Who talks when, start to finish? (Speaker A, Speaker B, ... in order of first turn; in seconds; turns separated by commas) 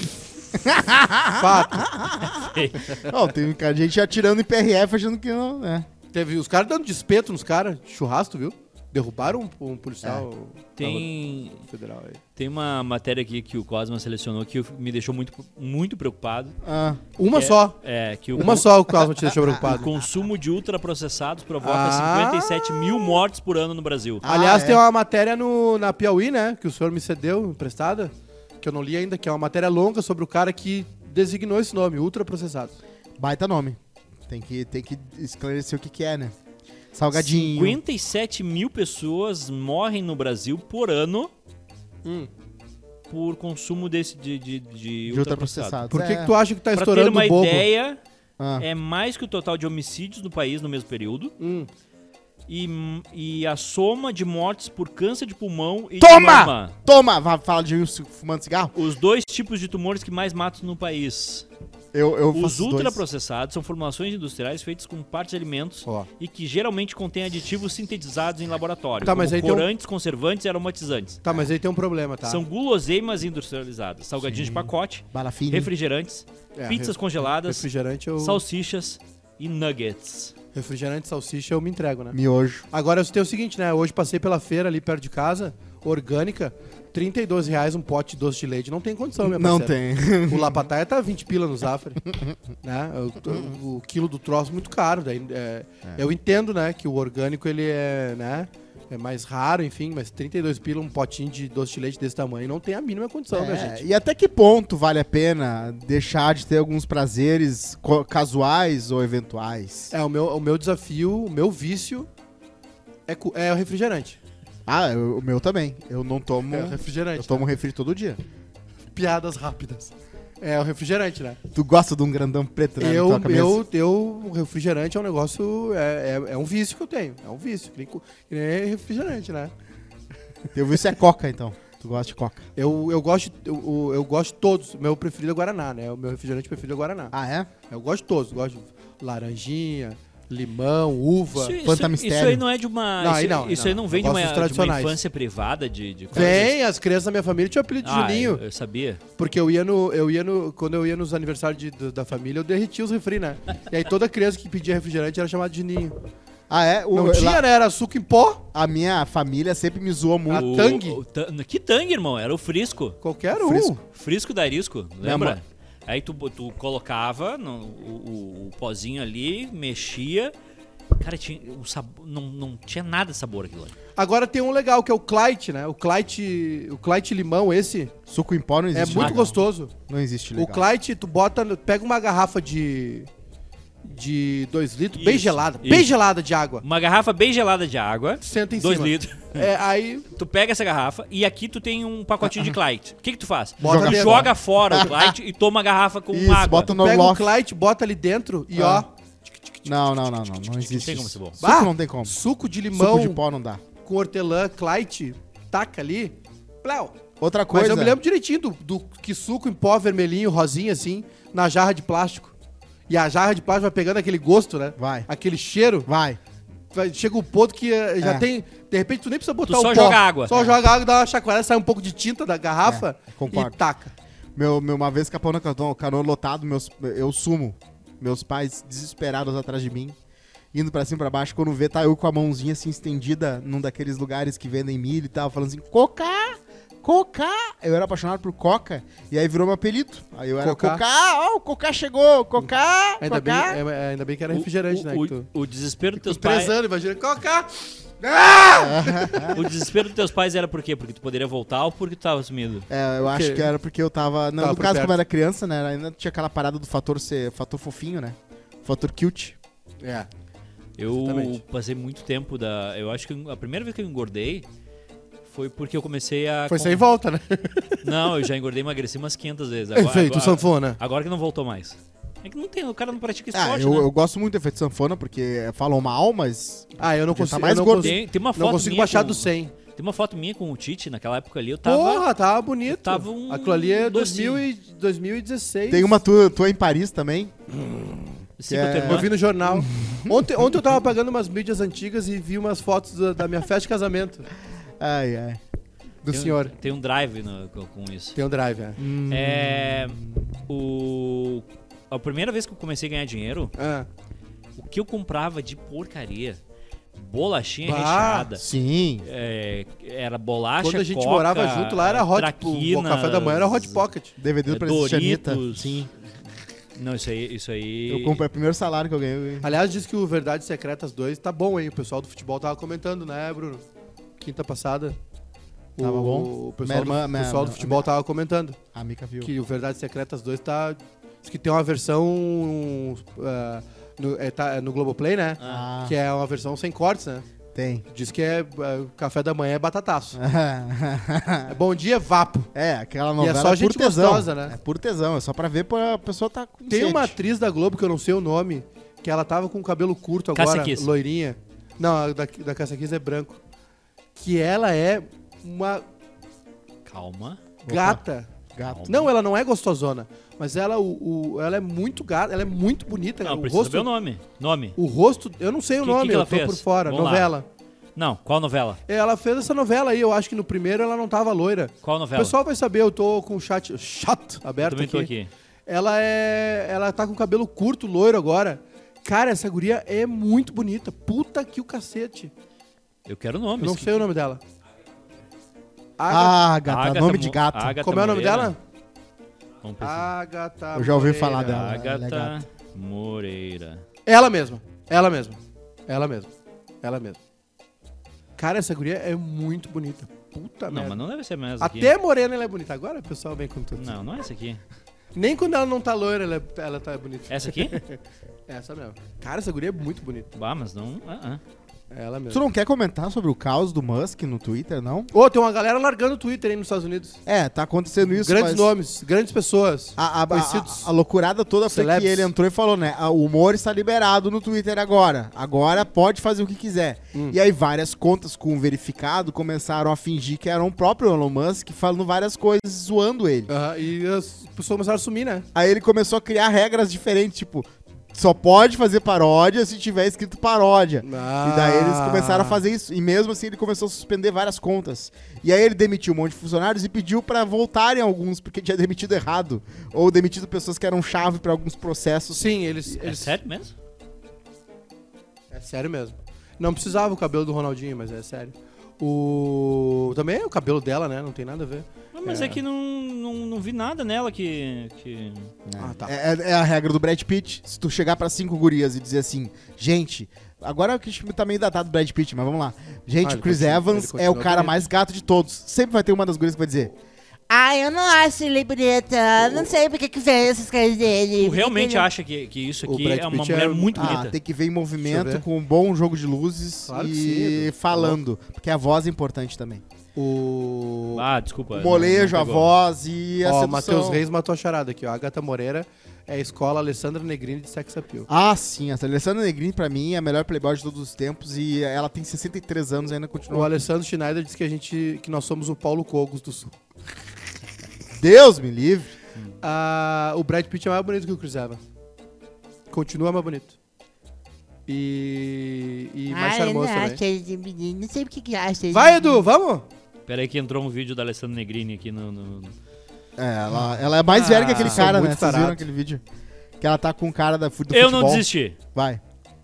Speaker A: 0.5-5.9, Speaker B: 1.4-2.0, Speaker C: 2.2-3.0, Speaker B: 6.1-12.2, Speaker C: 10.8-11.6, Speaker C: 12.3-16.6, Speaker A: 16.6-17.0, Speaker B: 17.2-17.8, Speaker C: 17.3-18.8, Speaker B: 18.3-19.9, Speaker C: 19.6-24.2, Speaker B: 21.6-22.7, Speaker A: 24.2-24.8, Speaker B: 24.2-32.8, Speaker A: 33.2-36.3, Speaker A: 36.9-37.8, Speaker C: 37.1-41.3, Speaker B: 42.0-42.3, Speaker C: 43.1-45.8, Speaker A: 45.1-46.3, Speaker B: 45.9-47.6, Speaker C: 46.7-48.0, Speaker A: 48.4-48.7, Speaker C: 48.6-51.3, Speaker B: 51.4-51.7, Speaker C: 52.5-56.7, Speaker A: 56.0-58.7, Speaker C: 58.7-61.5, Speaker A: 61.9-63.0, Speaker C: 62.3-71.2, Speaker B: 69.0-69.7, Speaker B: 71.2-72.4, Speaker C: 72.2-77.7, Speaker A: 74.2-75.7, Speaker B: 76.5-78.4, Speaker C: 78.2-80.3, Speaker B: 80.5-82.2, Speaker A: 82.1-82.7, Speaker B: 82.7-92.0, Speaker A: 89.2-90.7, Speaker B: 92.6-103.8, Speaker A: 103.3-109.9, Speaker B: 109.9-112.1, Speaker B: 113.1-114.2, Speaker A: 114.7-118.2, Speaker B: 116.5-117.5, Speaker B: 118.9-121.4, Speaker A: 121.5-123.6, Speaker B: 122.8-129.5, Speaker A: 130.5-132.5, Speaker B: 132.6-137.1, Speaker A: 137.1-137.5, Speaker B: 137.7-141.6, Speaker C: 141.3-146.6, Speaker A: 141.6-142.4, Speaker B: 143.0-145.0, Speaker B: 146.1-148.4, Speaker C: 147.8-149.0, Speaker B: 149.2-155.9, Speaker A: 156.5-157.4, Speaker B: 156.9-158.4, Speaker A: 158.5-160.7, Speaker B: 160.3-161.0, Speaker C: 160.3-163.0, Speaker B: 163.0-163.8, Speaker A: 163.3-163.7, Speaker C: 163.8-170.3, Speaker A: 165.0-165.4, Speaker C: 170.9-173.7, Speaker B: 173.9-177.9, Speaker A: 178.1-180.6, Speaker B: 178.7-179.7, Speaker C: 179.0-179.2, Speaker B: 180.3-183.1, Speaker B: 183.8-186.6, Speaker C: 184.9-185.9, Speaker C: 186.6-189.4, Speaker B: 188.2-190.1, Speaker C: 190.1-196.7, Speaker A: 192.2-192.5, Speaker B: 193.6-194.3, Speaker A: 193.6-195.1, Speaker A: 196.1-197.3, Speaker B: 196.7-200.6, Speaker A: 198.5-198.8, Speaker A: 199.6-202.1, Speaker C: 200.7-201.4, Speaker B: 201.4-203.2, Speaker A: 202.7-203.6, Speaker B: 203.8-207.0, Speaker A: 207.2-208.0, Speaker B: 207.5-212.3, Speaker B: 212.9-215.9, Speaker A: 214.8-215.1, Speaker A: 215.8-216.2, Speaker B: 216.7-223.9, Speaker A: 218.0-218.2, Speaker C: 219.4-220.3, Speaker A: 220.3-220.6, Speaker A: 222.6-223.5, Speaker A: 224.3-229.9, Speaker A: 230.5-243.6, Speaker B: 240.4-240.8, Speaker B: 243.0-245.3, Speaker C: 244.3-246.5, Speaker B: 246.0-249.5, Speaker A: 248.6-249.3, Speaker C: 249.3-252.7, Speaker A: 252.7-259.4, Speaker B: 253.0-253.5, Speaker B: 254.4-255.0, Speaker B: 259.8-260.1, Speaker C: 260.8-264.4, Speaker B: 260.9-261.4, Speaker C: 265.2-266.8, Speaker B: 266.5-268.1, Speaker C: 267.8-273.9, Speaker B: 269.7-270.8, Speaker A: 273.3-277.9, Speaker B: 276.8-279.5, Speaker C: 277.8-282.1, Speaker B: 281.6-286.0, Speaker C: 282.7-284.4, Speaker A: 285.7-287.3, Speaker B: 287.5-288.1, Speaker C: 288.4-289.1, Speaker A: 288.5-290.4, Speaker B: 288.8-294.3, Speaker A: 294.8-295.4, Speaker B: 296.0-296.5, Speaker C: 296.1-298.2, Speaker B: 298.1-298.8, Speaker A: 298.8-300.3, Speaker C: 299.1-303.5, Speaker B: 303.6-303.9, Speaker C: 304.6-306.4, Speaker C: 306.9-308.4, Speaker B: 307.6-308.3, Speaker A: 308.4-309.1, Speaker C: 309.0-313.8, Speaker B: 310.6-314.1, Speaker A: 314.2-315.9, Speaker C: 314.5-315.9, Speaker C: 316.8-318.2, Speaker A: 317.9-319.5, Speaker B: 319.4-323.6, Speaker B: 324.2-324.9, Speaker B: 325.8-328.6, Speaker A: 325.8-327.9, Speaker A: 328.7-329.3, Speaker B: 329.2-337.2, Speaker C: 335.4-335.6, Speaker A: 335.4-335.9, Speaker A: 337.5-337.8, Speaker B: 337.9-340.2, Speaker A: 340.1-341.5, Speaker B: 341.5-342.5, Speaker A: 342.5-347.1, Speaker B: 343.2-344.6, Speaker B: 346.7-353.4, Speaker C: 350.3-350.9, Speaker B: 354.1-355.9, Speaker C: 356.9-357.4, Speaker A: 357.6-358.0, Speaker B: 357.7-358.3, Speaker A: 358.6-358.9, Speaker C: 358.6-359.1, Speaker B: 358.9-363.9, Speaker C: 363.2-364.8, Speaker B: 364.8-367.4, Speaker C: 365.8-367.3, Speaker C: 367.9-368.8, Speaker B: 368.9-375.1, Speaker C: 371.8-372.3, Speaker C: 374.6-375.3, Speaker B: 375.7-382.3, Speaker C: 383.1-384.0, Speaker B: 383.6-384.4, Speaker B: 386.0-386.4, Speaker A: 386.1-387.8, Speaker C: 386.6-388.5, Speaker B: 387.8-388.6, Speaker C: 389.6-390.1, Speaker B: 389.8-391.7, Speaker A: 390.7-392.4, Speaker C: 391.4-393.8, Speaker B: 394.1-396.3, Speaker B: 396.8-397.2, Speaker B: 398.4-401.0, Speaker C: 400.7-401.9, Speaker B: 401.6-403.9, Speaker C: 403.7-404.6, Speaker B: 405.1-410.3, Speaker C: 407.3-407.8, Speaker C: 410.3-411.4, Speaker B: 411.9-412.4, Speaker A: 412.3-415.1, Speaker B: 415.1-417.2, Speaker A: 417.2-418.7, Speaker B: 418.0-420.9, Speaker A: 420.0-433.5, Speaker B: 421.7-422.3, Speaker B: 433.5-435.5, Speaker A: 435.5-452.4, Speaker B: 441.0-442.6, Speaker B: 452.3-453.4, Speaker C: 453.0-453.7, Speaker B: 455.5-462.6, Speaker C: 462.1-465.5, Speaker A: 465.6-476.9, Speaker B: 465.8-466.1, Speaker B: 473.2-474.9, Speaker D: 477.5-482.1, Speaker C: 481.4-484.3, Speaker B: 482.9-484.2, Speaker A: 483.9-489.8, Speaker B: 485.0-485.4, Speaker B: 486.9-488.2, Speaker B: 490.1-491.2, Speaker C: 491.1-492.7, Speaker A: 491.7-494.2, Speaker B: 493.4-498.3, Speaker A: 498.3-503.7, Speaker B: 503.5-506.8, Speaker A: 508.1-509.1, Speaker B: 509.6-511.8, Speaker B: 512.9-513.8, Speaker B: 514.9-517.2, Speaker D: 516.3-519.4, Speaker B: 518.9-519.9, Speaker C: 520.3-522.7, Speaker A: 523.4-526.2, Speaker B: 523.7-525.9, Speaker C: 524.5-525.1, Speaker A: 526.8-529.2, Speaker C: 527.9-528.8